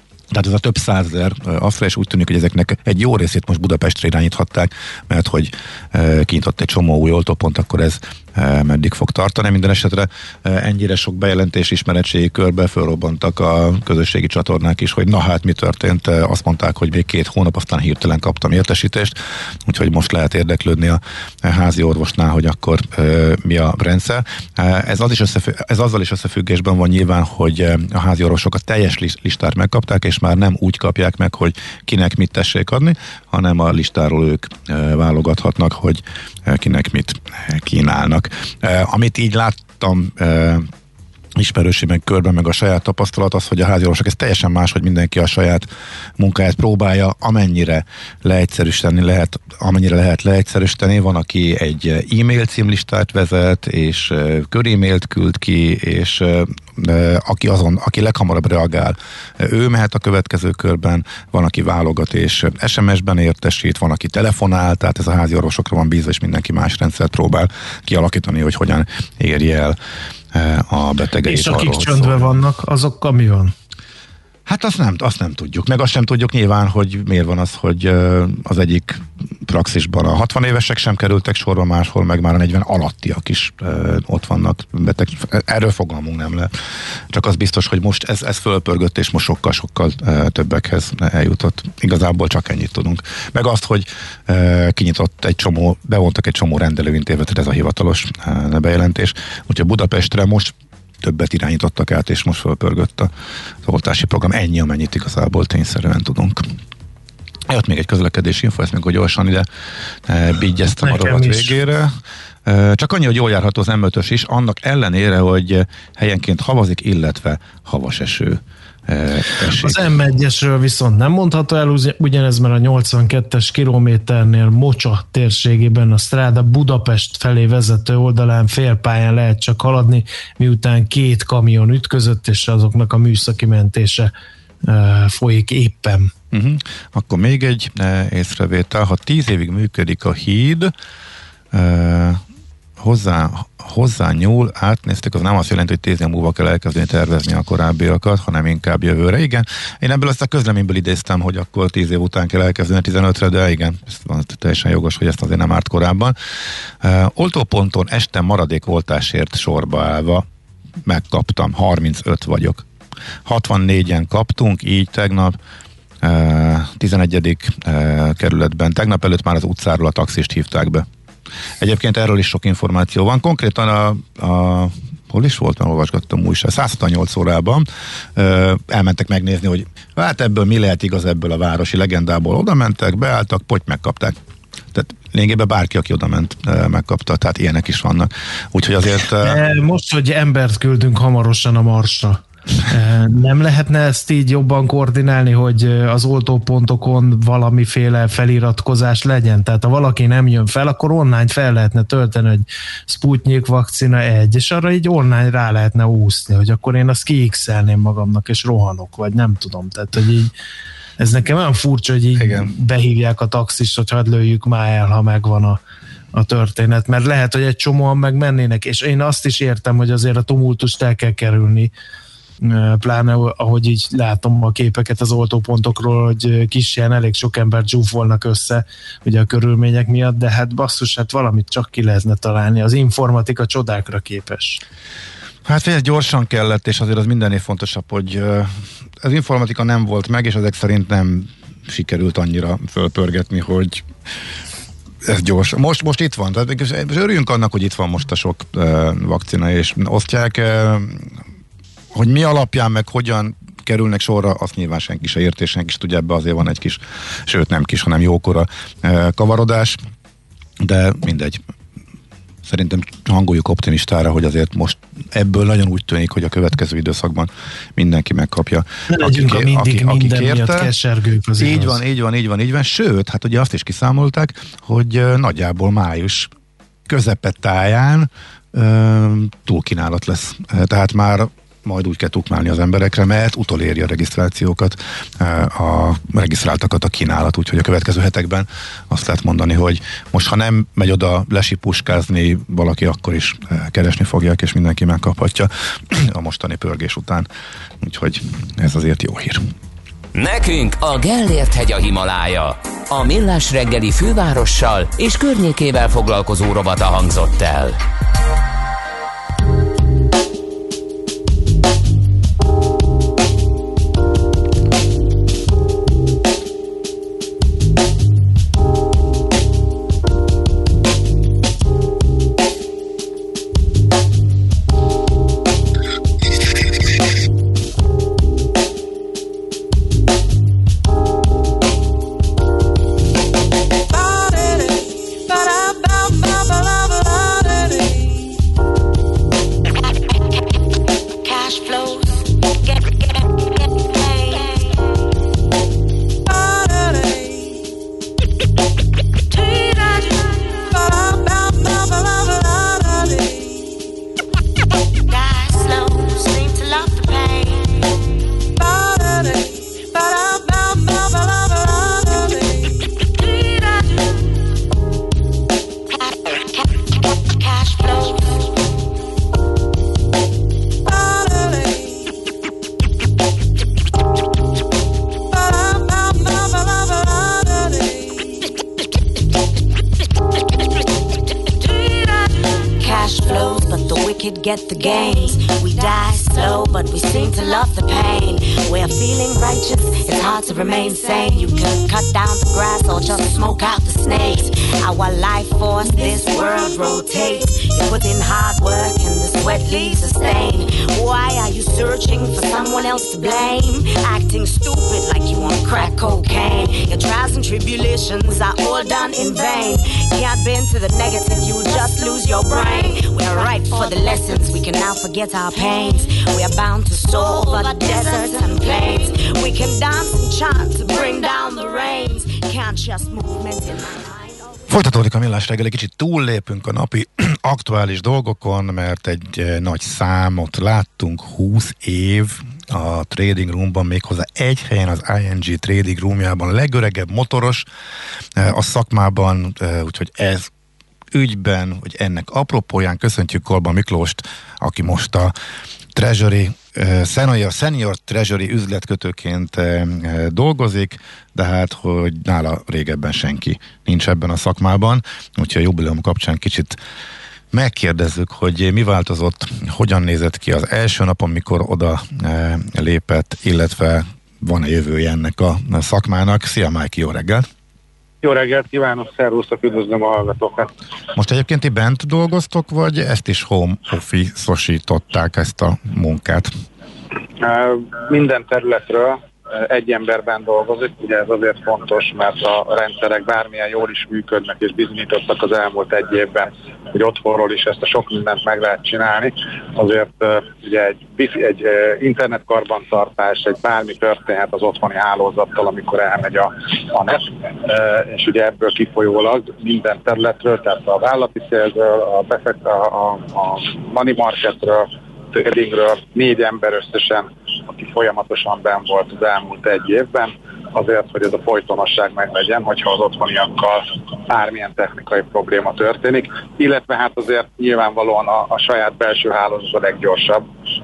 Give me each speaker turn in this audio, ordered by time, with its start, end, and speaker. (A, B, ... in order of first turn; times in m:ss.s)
0:00.3-0:40.7 A
0:41.4-0:45.7 A
0:46.2-1:09.8 A
1:10.3-1:12.4 A
1:11.3-1:13.5 B
1:14.5-1:26.5 A
1:27.1-1:43.1 A
1:43.6-1:46.5 A
1:47.5-1:49.5 A
1:50.1-1:51.9 A
1:50.8-1:51.5 B
1:52.5-1:59.9 A
1:59.6-2:14.1 B
2:14.6-2:16.1 B
2:16.3-2:20.7 A
2:21.5-2:22.2 A
2:22.8-2:36.2 A
2:36.8-2:40.2 A
2:40.8-2:42.6 A
2:43.2-2:45.4 A
2:46.0-2:50.9 A
2:51.6-3:04.2 A
3:04.7-3:09.4 A
3:09.2-3:30.3 B
3:31.0-3:35.6 B
3:32.2-3:32.5 A
3:36.1-3:41.7 B
3:42.4-3:54.6 B
3:55.4-4:03.9 A
4:05.0-4:11.2 A
4:11.9-4:19.8 A
4:20.6-4:21.4 A
4:22.4-4:30.7 A
4:28.9-4:31.8 B
4:31.4-4:36.3 A
4:36.9-4:57.3 A
4:57.8-4:59.4 A
5:00.1-5:07.8 C
5:39.9-5:40.4 D
5:41.2-5:44.8 D
5:55.1-5:57.8 D
6:06.0-6:08.4 D
6:22.7-7:04.3 D
7:04.7-7:17.7 A
7:18.4-7:20.5 A
7:21.1-7:25.3 A
7:26.0-7:36.8 A
7:37.5-7:47.5 A
7:48.2-7:50.7 E
7:51.2-7:56.5 A
7:57.4-8:40.4 E